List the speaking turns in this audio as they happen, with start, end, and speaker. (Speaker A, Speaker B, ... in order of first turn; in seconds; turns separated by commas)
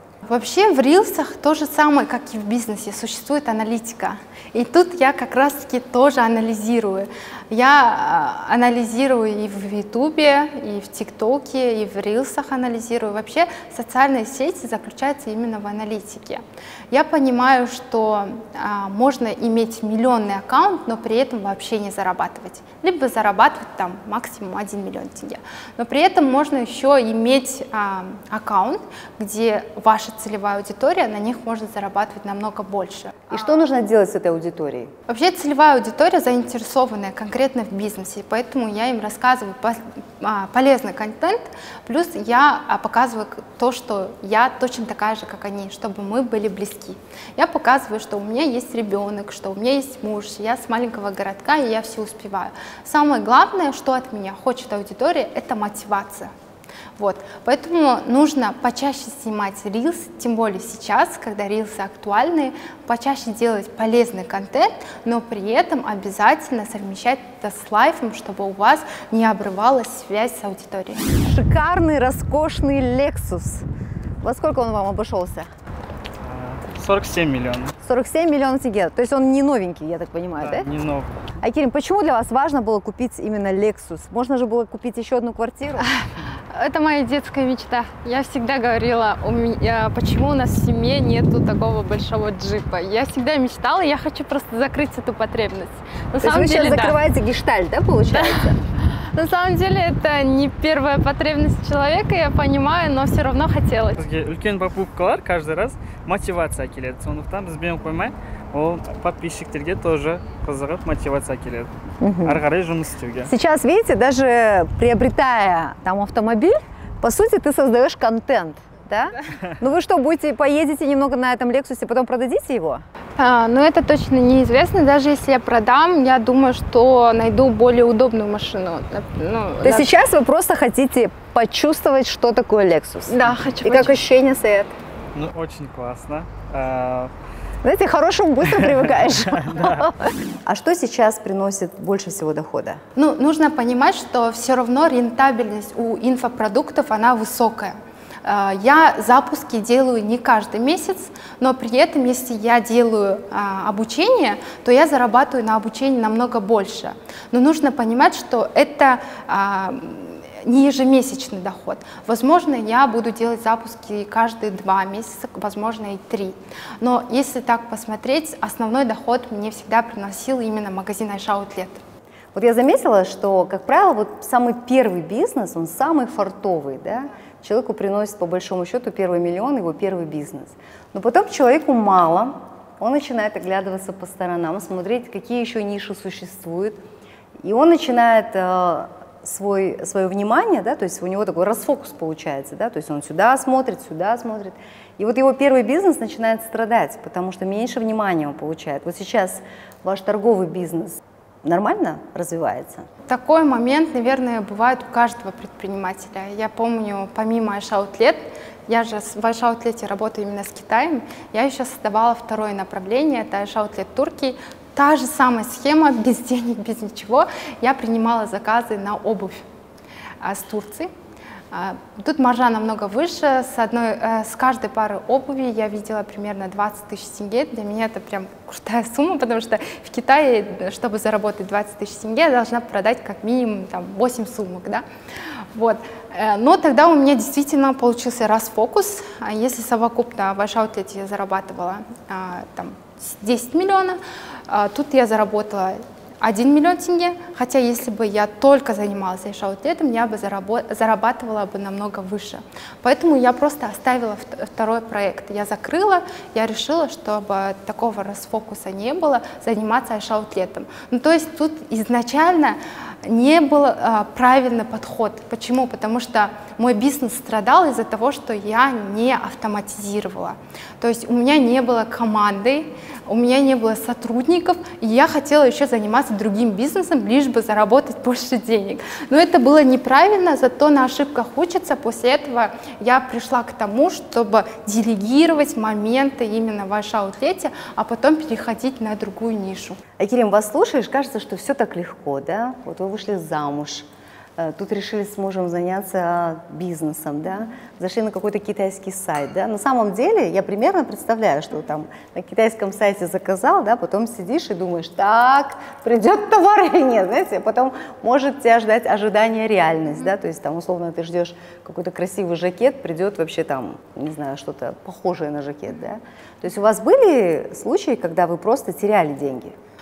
Speaker A: 0.2-33.5, Speaker B: 33.3-34.9, Speaker A: 35.1-56.3, Speaker A: 57.0-71.0, Speaker B: 71.2-73.7, Speaker B: 74.2-75.5, Speaker C: 76.2-77.7, Speaker B: 77.8-80.7, Speaker C: 80.4-81.1, Speaker B: 81.4-85.9, Speaker A: 85.8-97.0, Speaker B: 96.2-98.6, Speaker A: 98.1-104.0, Speaker C: 104.0-111.7, Speaker B: 112.0-112.4, Speaker C: 112.2-113.3, Speaker B: 113.2-122.8, Speaker A: 123.2-129.9, Speaker B: 129.6-134.7, Speaker A: 133.1-134.0, Speaker C: 135.1-137.1, Speaker B: 137.6-142.8, Speaker C: 139.3-139.8, Speaker A: 142.9-171.8, Speaker B: 172.3-186.8, Speaker B: 187.4-202.9, Speaker A: 203.1-219.4, Speaker A: 220.2-220.9, Speaker A: 221.5-234.8, Speaker A: 235.5-289.8, Speaker B: 290.0-319.6